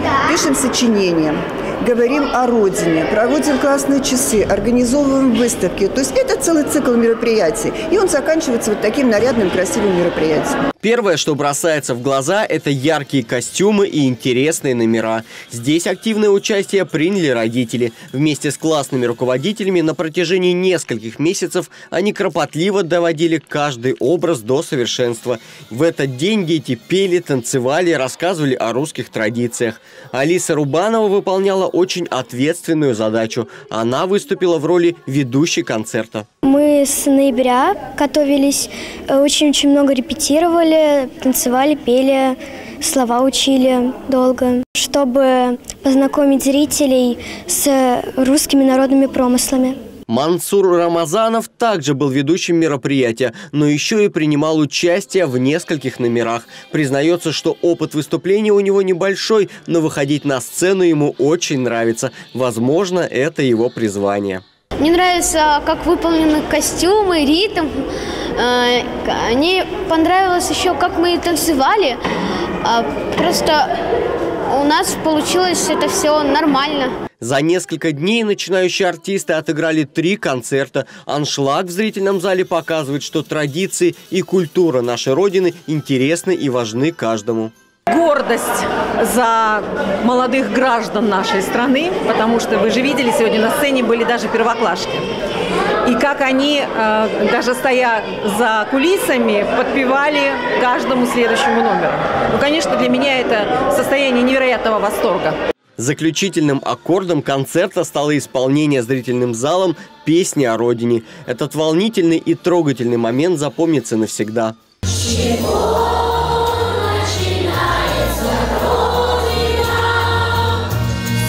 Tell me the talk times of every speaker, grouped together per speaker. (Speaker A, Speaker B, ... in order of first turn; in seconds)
Speaker A: 0.2-10.6
Speaker B: 10.8-36.3, 50.1-64.4, 77.2-87.5, 105.8-114.5
Speaker C: 36.4-49.8
Speaker D: 64.8-67.7, 68.4-72.0, 72.6-73.7, 74.5-76.9
Speaker E: 87.9-95.1, 95.8-105.3